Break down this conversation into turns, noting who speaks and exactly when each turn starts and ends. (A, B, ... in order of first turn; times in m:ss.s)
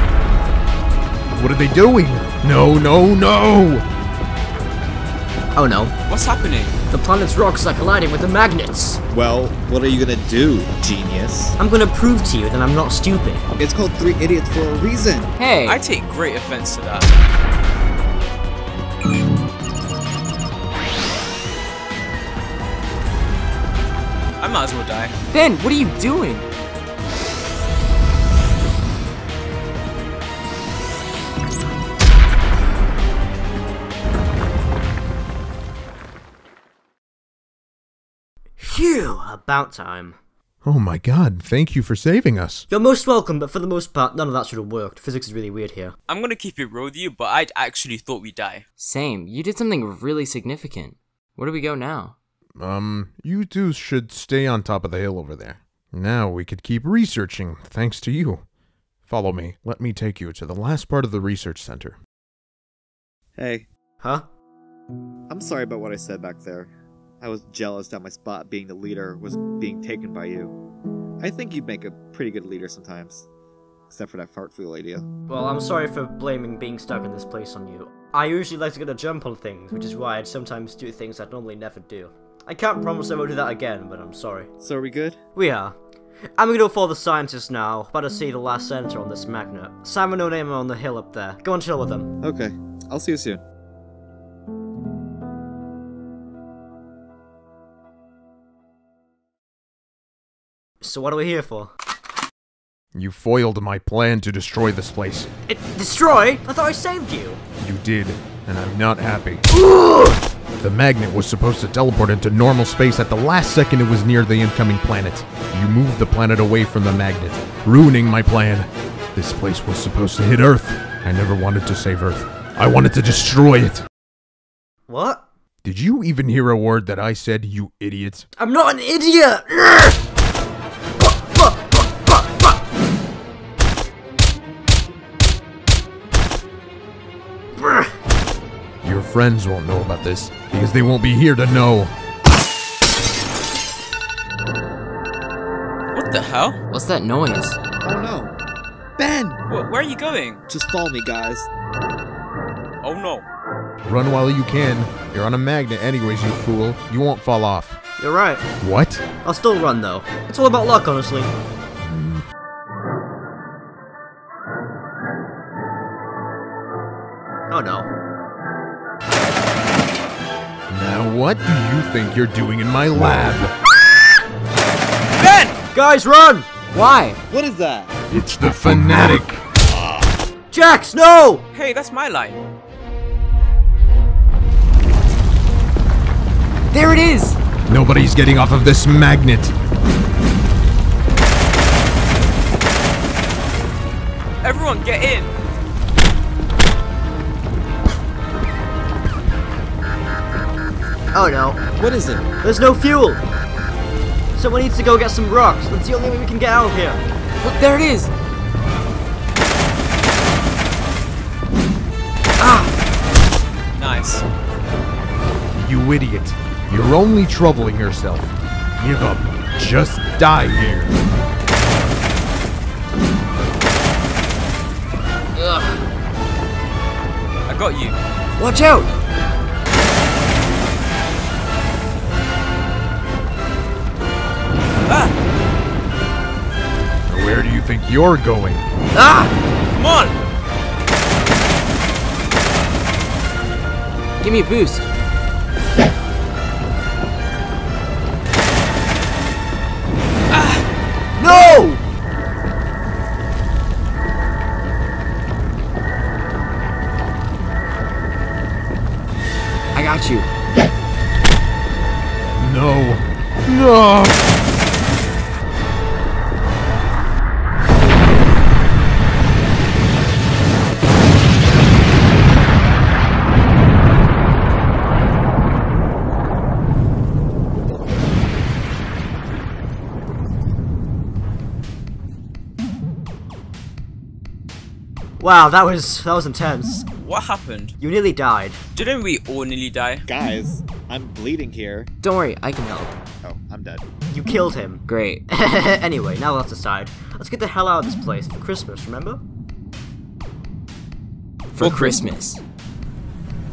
0:01.3-0:03.8 A
0:05.5-0:05.9 B
0:06.1-0:06.8 C
0:06.9-0:09.0 B
0:09.1-0:11.6 D
0:11.6-0:13.4 B
0:13.6-0:15.3 D
0:15.4-0:15.8 E
0:15.6-0:17.1 C
0:24.4-0:25.1 C
0:25.3-0:26.5 E
0:38.6-0:40.2 B
0:40.6-0:42.7 A
0:42.7-0:45.9 B
0:46.1-0:48.6 C
0:48.8-0:52.1 E
0:52.6-0:58.4 A
0:59.0-1:02.0 A
1:03.4-1:03.7 D
1:04.0-1:04.2 B
1:05.3-1:10.5 D
1:11.2-1:13.3 D
1:13.9-1:15.1 D
1:15.3-1:24.5 B
1:24.6-1:25.2 D
1:25.3-1:25.7 B
1:26.4-1:32.1 B
1:32.2-1:33.4 D
1:40.8-1:41.7 B
1:42.9-1:45.3 A
1:45.5-1:47.4 B
1:47.6-1:49.4 A
1:49.5-1:50.2 B
1:50.6-2:03.8 A
2:04.9-2:05.2 B
2:05.6-2:08.3 A
2:08.4-2:10.0 B
2:11.0-2:12.5 B
2:17.6-2:17.9 B
2:18.8-2:21.9 A
2:25.9-2:26.6 C
2:26.7-2:27.6 E
2:27.8-2:28.4 D
2:29.0-2:29.4 D
2:29.5-2:30.4 C
2:30.5-2:31.5 D
2:32.8-2:33.2 C
2:33.8-2:37.8 A
2:38.0-2:38.4 B
2:38.6-2:39.0 A
2:39.2-2:41.3 B
2:41.8-2:42.2 A
2:47.5-2:47.9 B
2:50.7-2:53.5 A
2:55.2-2:55.6 C
2:55.7-2:56.5 B
2:56.7-2:57.2 E
2:57.3-2:58.0 D
2:58.1-2:59.4 A
3:00.5-3:01.4 B
3:01.5-3:02.4 C
3:06.7-3:07.4 E
3:07.7-3:09.5 A
3:14.4-3:15.3 C
3:21.1-3:21.6 B
3:21.8-3:22.3 D
3:22.4-3:23.2 B
3:24.3-3:27.0 B
3:27.4-3:28.1 E
3:32.4-3:32.7 E
3:33.8-3:34.2 C
3:35.6-3:41.1 A
3:41.6-3:42.0 A
3:45.4-3:45.8 E
3:47.5-3:48.0 C
3:48.4-3:48.9 E
3:54.8-3:55.1 C
3:57.1-3:58.6 A
3:58.9-3:59.3 E
3:59.7-4:00.2 C
4:04.2-4:04.9 E
4:10.3-4:10.7 C
4:11.2-4:11.8 B
4:19.7-4:20.3 E
4:22.4-4:24.3 A
4:45.2-4:46.8 B
4:47.0-4:47.7 C
4:47.8-4:48.6 B
4:48.7-4:50.0 C
4:50.1-4:51.9 D
4:52.0-4:53.0 E
4:53.2-4:53.8 D
4:54.1-4:59.2 B
4:54.9-4:55.2 E
5:01.5-5:02.4 E
5:01.6-5:02.0 B